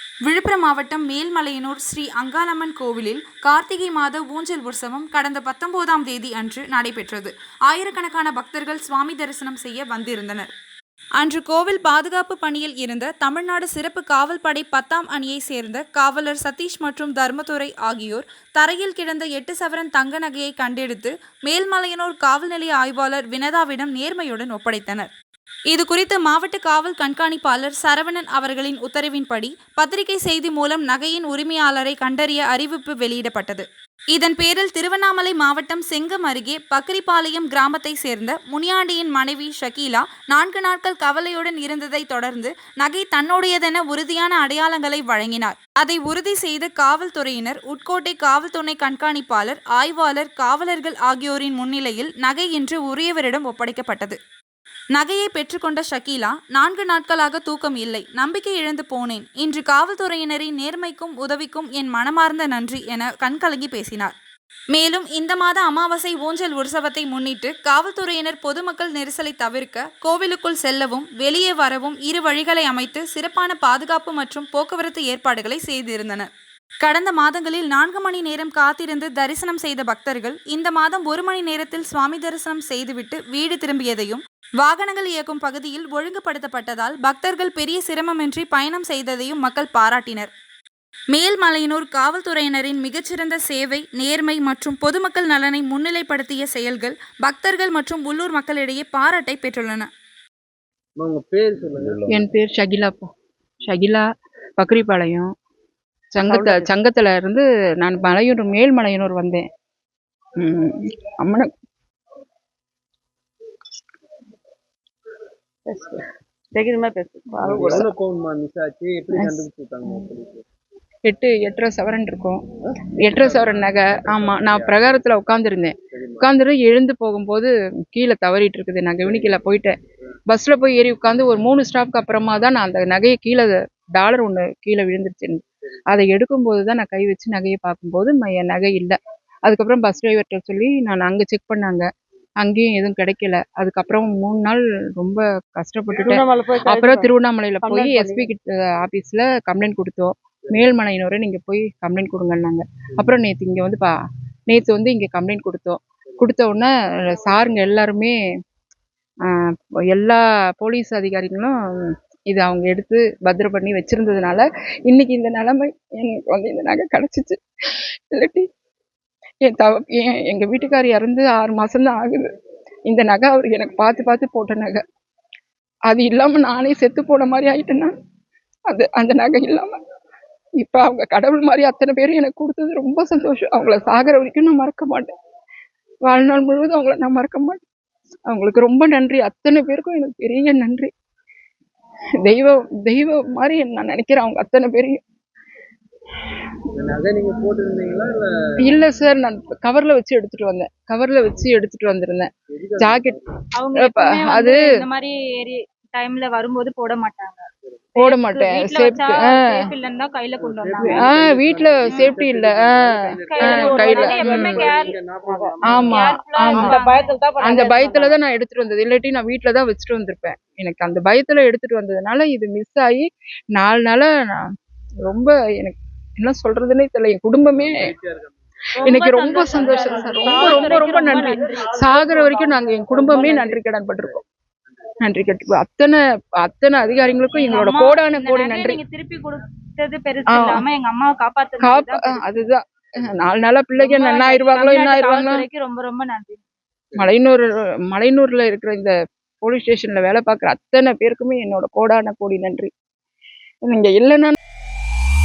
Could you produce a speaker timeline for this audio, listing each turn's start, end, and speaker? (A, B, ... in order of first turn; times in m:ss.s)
0:00.2-0:10.5 A
0:11.2-0:25.1 A
0:25.7-0:54.2 A
0:54.9-1:04.1 A
1:04.7-1:16.3 A
1:16.8-1:30.3 A
1:31.1-1:39.9 A
1:41.0-1:42.2 B
1:42.1-1:43.1 C
1:43.6-1:44.0 C
1:44.6-1:45.3 C
1:46.2-1:49.4 C
1:46.2-1:46.7 D
1:50.4-1:51.5 C
1:55.7-1:57.9 D
1:57.4-2:00.4 B
2:01.0-2:02.4 C
2:03.0-2:09.7 C
2:03.2-2:05.0 B
2:10.3-2:21.8 C
2:22.4-2:33.9 C
2:26.0-2:28.3 D
2:34.5-2:38.2 C
2:39.3-2:47.4 C
2:48.1-2:48.5 C
2:49.4-2:52.3 C
2:52.9-2:54.8 C
2:55.9-2:57.9 C
2:58.7-2:59.7 C
3:00.6-3:05.1 C
3:06.1-3:07.6 C
3:08.3-3:10.9 C
3:12.2-3:15.0 C
3:16.8-3:18.2 B
3:18.6-3:23.2 C
3:22.7-3:23.2 B
3:23.6-3:27.4 E
3:23.8-3:24.6 C
3:28.0-3:31.1 E
3:28.0-3:29.4 C
3:30.4-3:36.0 B
3:30.8-3:32.8 C
3:33.3-3:35.0 E
3:33.4-3:34.6 C
3:33.6-3:35.8 D
3:35.7-3:36.8 C
3:35.8-3:37.1 E
3:36.5-3:38.2 D
3:37.4-3:44.4 C
3:45.1-3:47.9 C
3:47.7-3:47.9 B
3:48.8-3:52.1 E
3:48.8-3:54.2 C
3:49.4-3:50.1 B
3:50.2-3:53.6 D
3:55.0-3:58.8 C
3:57.3-4:02.3 E
4:00.3-4:00.6 C
4:01.6-4:05.4 C
4:03.8-4:06.4 E
4:07.0-4:12.7 C
4:13.6-4:14.4 C